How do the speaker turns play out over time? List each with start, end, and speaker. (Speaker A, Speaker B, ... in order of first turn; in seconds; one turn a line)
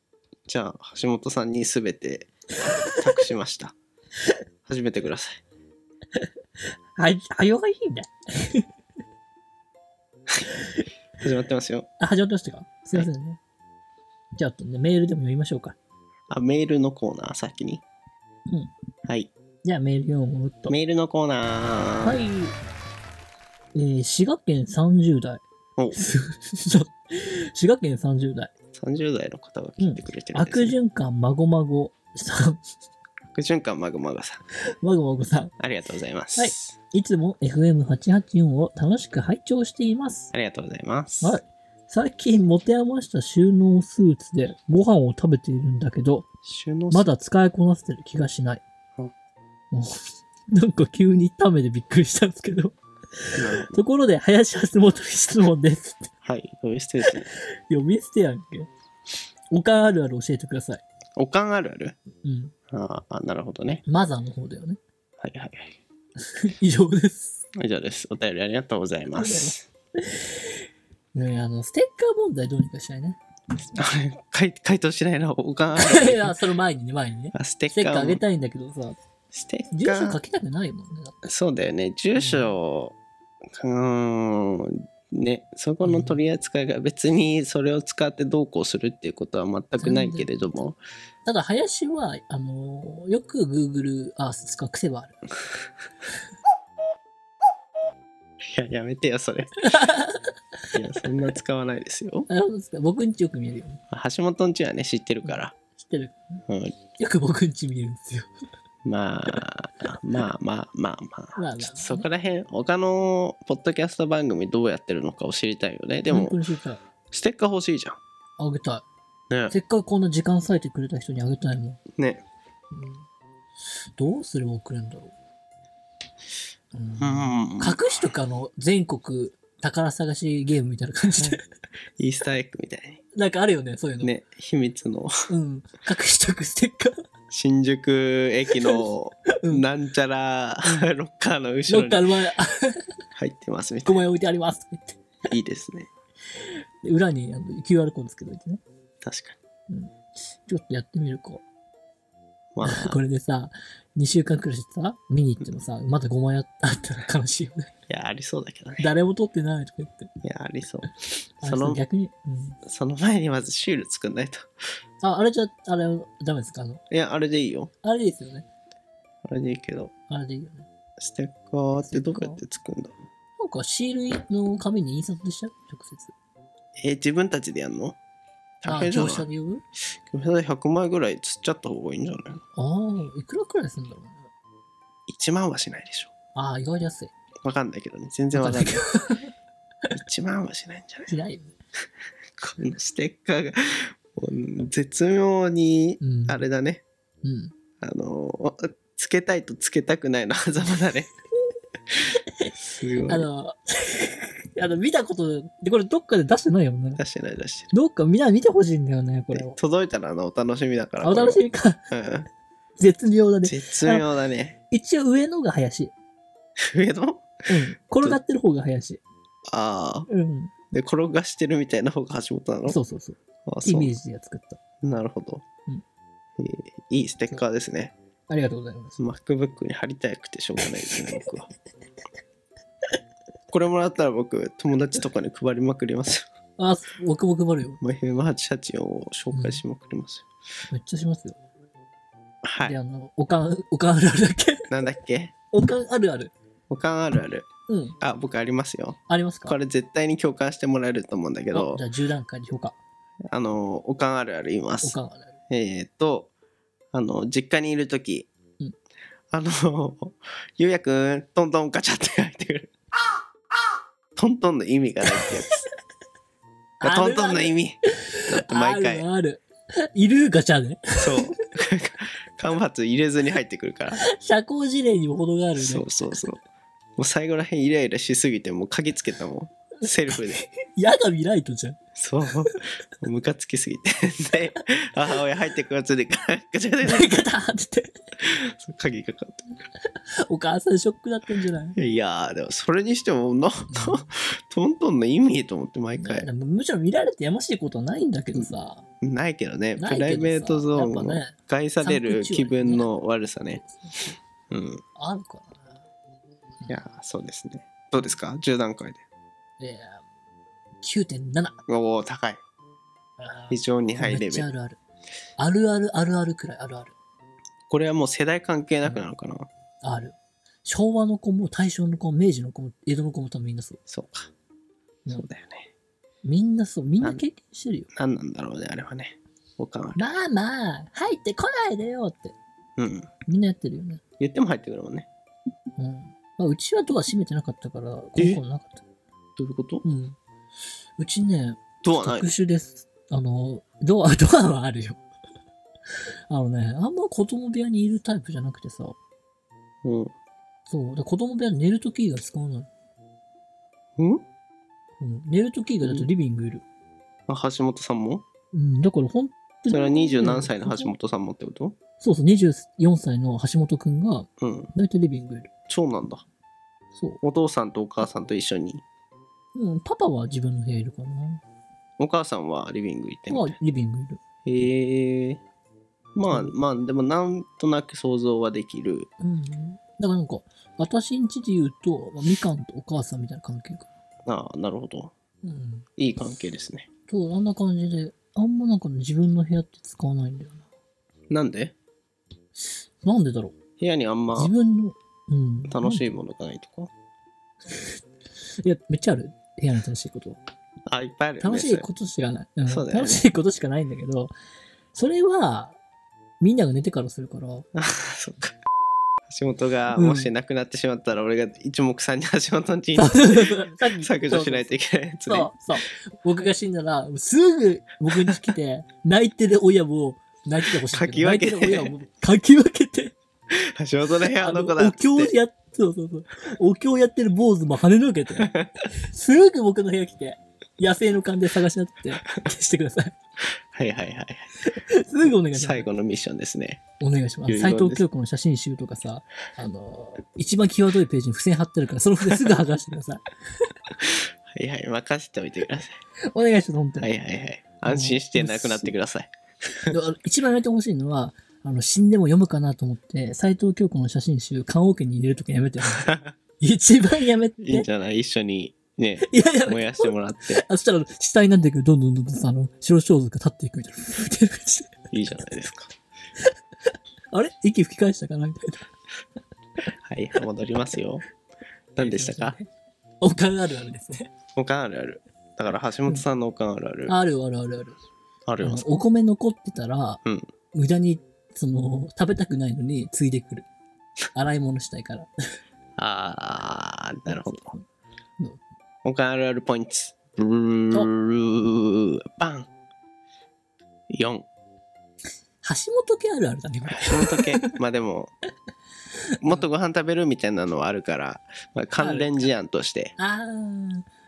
Speaker A: 0.5-2.3
Speaker A: 2.9-3.8
Speaker A: 4.7-5.4
Speaker B: 7.0-8.6
Speaker A: 11.2-11.9
Speaker B: 12.0-13.4
Speaker B: 14.3-15.8
Speaker A: 16.3-17.8
Speaker B: 19.6-20.7
Speaker A: 20.7-22.2
Speaker B: 22.0-22.5
Speaker B: 23.7-28.5
Speaker A: 28.7-30.8
Speaker B: 29.8-32.6
Speaker A: 33.3-34.4
Speaker B: 34.8-35.5
Speaker A: 35.6-36.8
Speaker B: 36.4-40.3
Speaker A: 40.3-41.4
Speaker B: 41.2-46.3
Speaker A: 46.4-47.1
Speaker B: 46.9-48.6
Speaker B: 49.7-56.1
Speaker A: 53.4-53.8
Speaker A: 56.2-57.3
Speaker B: 57.3-58.7
Speaker B: 59.5-60.8
Speaker A: 61.2-62.0
Speaker B: 62.2-62.5
Speaker A: 62.7-63.8
Speaker B: 63.9-64.8
Speaker A: 65.2-65.8
Speaker B: 66.2-67.4
Speaker A: 67.6-69.6
Speaker B: 69.1-70.5
Speaker B: 71.1-73.2
Speaker A: 73.8-76.4
Speaker B: 75.7-79.0
Speaker A: 77.3-78.2
Speaker A: 79.3-80.2
Speaker B: 79.7-81.2
Speaker A: 81.2-83.0
Speaker B: 82.2-82.6
Speaker A: 83.5-90.8
Speaker B: 85.8-86.2
Speaker B: 89.8-90.7
Speaker B: 91.2-95.3
Speaker A: 98.5-99.7
Speaker B: 99.6-100.3
Speaker A: 100.7-102.3
Speaker B: 102.3-103.8
Speaker A: 103.9-105.5
Speaker B: 105.2-106.4
Speaker A: 106.5-106.8
Speaker B: 107.0-108.3
Speaker A: 108.8-116.4
Speaker B: 111.3-112.1
Speaker B: 116.1-116.8
Speaker A: 117.1-118.0
Speaker B: 118.4-118.8
Speaker A: 119.3-119.5
Speaker B: 119.5-121.8
Speaker A: 122.0-122.2
Speaker B: 122.7-123.0
Speaker B: 124.0-125.1
Speaker B: 126.7-131.4
Speaker A: 127.0-128.0
Speaker A: 132.0-133.0
Speaker B: 133.1-134.1
Speaker A: 134.0-135.1
Speaker B: 135.3-137.0
Speaker A: 137.3-142.1
Speaker B: 138.5-138.8
Speaker B: 139.4-139.6
Speaker B: 141.7-142.8
Speaker A: 143.2-144.0
Speaker B: 143.8-145.0
Speaker A: 145.3-145.9
Speaker B: 146.4-148.6
Speaker A: 149.0-149.4
Speaker B: 149.7-151.4
Speaker A: 152.5-153.0
Speaker B: 152.6-157.7
Speaker A: 157.9-158.9
Speaker B: 158.8-160.1
Speaker A: 160.2-161.8
Speaker B: 161.4-162.6
Speaker A: 162.7-164.5
Speaker B: 165.0-166.8
Speaker A: 166.9-167.7
Speaker B: 167.8-168.5
Speaker A: 169.3-169.9
Speaker B: 170.1-170.7
Speaker A: 171.0-172.9
Speaker B: 171.8-172.4
Speaker B: 173.4-176.1
Speaker A: 176.8-178.0
Speaker A: 178.6-179.3
Speaker B: 178.6-179.6
Speaker A: 180.1-182.4
Speaker B: 182.6-184.3
Speaker A: 185.1-186.1
Speaker B: 186.3-187.1
Speaker A: 187.4-188.8
Speaker B: 188.3-189.3
Speaker A: 189.9-191.1
Speaker B: 191.1-191.5
Speaker A: 192.4-196.8
Speaker B: 196.0-196.4
Speaker B: 197.2-197.5
Speaker A: 197.8-201.1
Speaker A: 202.6-203.3
Speaker B: 203.1-207.0
Speaker A: 207.0-207.7
Speaker B: 207.7-209.6
Speaker A: 209.3-212.3
Speaker B: 211.0-211.9
Speaker B: 212.8-214.1
Speaker A: 213.4-214.6
Speaker B: 214.7-215.9
Speaker A: 216.7-217.4
Speaker B: 217.5-219.0
Speaker A: 219.5-220.1
Speaker B: 220.1-220.5
Speaker A: 220.7-222.8
Speaker B: 222.7-224.6
Speaker A: 223.4-223.9
Speaker A: 224.8-225.4
Speaker A: 226.4-227.9
Speaker B: 228.3-229.0
Speaker A: 229.0-231.5
Speaker A: 233.5-236.2
Speaker B: 236.6-237.8
Speaker A: 237.8-240.3
Speaker B: 239.3-239.6
Speaker B: 240.7-241.4
Speaker A: 242.4-242.8
Speaker B: 242.6-244.6
Speaker A: 244.7-245.3
Speaker B: 245.5-246.3
Speaker A: 246.7-247.5
Speaker B: 247.7-247.9
Speaker A: 248.0-251.8
Speaker B: 249.1-249.6
Speaker B: 251.5-252.7
Speaker A: 253.3-255.0
Speaker B: 254.8-255.3
Speaker A: 255.5-256.3
Speaker A: 256.9-258.3
Speaker A: 259.3-262.7
Speaker A: 264.1-265.5
Speaker B: 266.8-267.5
Speaker A: 266.8-269.1
Speaker B: 268.1-271.3
Speaker A: 271.0-274.0
Speaker B: 274.0-275.9
Speaker A: 275.6-276.4
Speaker A: 277.0-280.4
Speaker B: 280.4-281.8
Speaker A: 281.9-287.2
Speaker B: 286.8-288.0
Speaker A: 288.2-289.6
Speaker B: 290.3-291.8
Speaker A: 291.8-296.3
Speaker B: 293.7-294.1
Speaker B: 296.0-298.8
Speaker A: 298.3-303.6
Speaker B: 299.8-302.9
Speaker B: 303.5-304.2
Speaker A: 304.5-304.8
Speaker B: 305.0-305.8
Speaker A: 306.7-309.0
Speaker B: 309.6-310.0
Speaker B: 310.8-311.6
Speaker A: 311.7-312.4
Speaker B: 313.2-314.8
Speaker A: 313.5-314.5
Speaker B: 315.4-316.9
Speaker A: 317.7-319.5
Speaker B: 318.8-319.1
Speaker B: 319.8-323.8
Speaker A: 323.9-324.3
Speaker A: 325.1-325.7
Speaker B: 326.2-327.9
Speaker A: 327.9-330.1
Speaker B: 329.9-332.4
Speaker A: 332.8-333.1
Speaker B: 333.2-334.0
Speaker A: 334.2-335.1
Speaker B: 335.8-338.8
Speaker A: 339.4-339.8
Speaker B: 339.8-340.2
Speaker B: 341.0-345.0
Speaker A: 341.8-342.3
Speaker B: 346.3-348.9
Speaker A: 349.8-350.1
Speaker B: 350.7-352.7
Speaker A: 354.0-354.2
Speaker B: 355.0-356.6
Speaker A: 355.8-356.1
Speaker A: 357.3-358.2
Speaker B: 358.5-360.9
Speaker A: 359.7-361.8
Speaker B: 362.0-365.5
Speaker A: 364.4-364.7
Speaker A: 365.7-366.2
Speaker B: 366.9-367.2
Speaker A: 367.2-368.8
Speaker B: 369.5-371.4
Speaker A: 372.0-373.6
Speaker B: 373.3-374.2
Speaker A: 374.4-375.4
Speaker A: 376.1-379.1
Speaker B: 376.3-376.6
Speaker B: 379.2-383.9
Speaker A: 384.2-385.1
Speaker B: 385.4-385.9
Speaker A: 386.0-386.9
Speaker B: 387.1-390.6
Speaker A: 391.3-391.7
Speaker B: 393.0-393.6
Speaker A: 393.8-394.5
Speaker B: 394.3-396.1
Speaker A: 395.7-396.9
Speaker B: 398.6-400.4
Speaker A: 400.9-401.9
Speaker B: 401.4-404.3
Speaker A: 402.7-403.2
Speaker B: 404.9-405.8
Speaker B: 406.4-407.7
Speaker A: 407.7-408.6
Speaker A: 409.3-415.5
Speaker B: 409.9-410.3
Speaker B: 412.9-423.1
Speaker A: 418.1-418.4
Speaker A: 420.9-421.9
Speaker A: 423.5-425.3
Speaker B: 424.3-428.5
Speaker A: 428.4-428.7
Speaker B: 429.0-433.1
Speaker A: 433.7-434.5
Speaker B: 434.7-435.9
Speaker A: 435.5-436.8
Speaker B: 437.0-443.2
Speaker A: 437.5-438.0
Speaker A: 444.5-445.9
Speaker B: 446.3-447.1
Speaker A: 447.0-449.3
Speaker B: 447.8-448.9
Speaker B: 449.9-457.9
Speaker A: 456.0-456.3
Speaker A: 457.6-460.6
Speaker B: 459.2-465.1
Speaker A: 465.1-465.9
Speaker B: 467.3-468.9
Speaker A: 470.1-471.2
Speaker B: 472.0-472.7
Speaker A: 472.0-472.6
Speaker B: 473.2-474.3
Speaker A: 474.6-477.1
Speaker B: 477.1-478.0
Speaker A: 478.4-479.0
Speaker B: 478.6-480.2
Speaker B: 480.7-483.6
Speaker B: 484.3-485.3
Speaker A: 486.0-487.7
Speaker B: 487.3-487.8
Speaker A: 489.0-492.7
Speaker A: 494.1-494.5
Speaker B: 495.6-497.7
Speaker A: 496.9-498.3
Speaker A: 499.4-503.1
Speaker B: 502.0-502.4
Speaker B: 503.2-504.1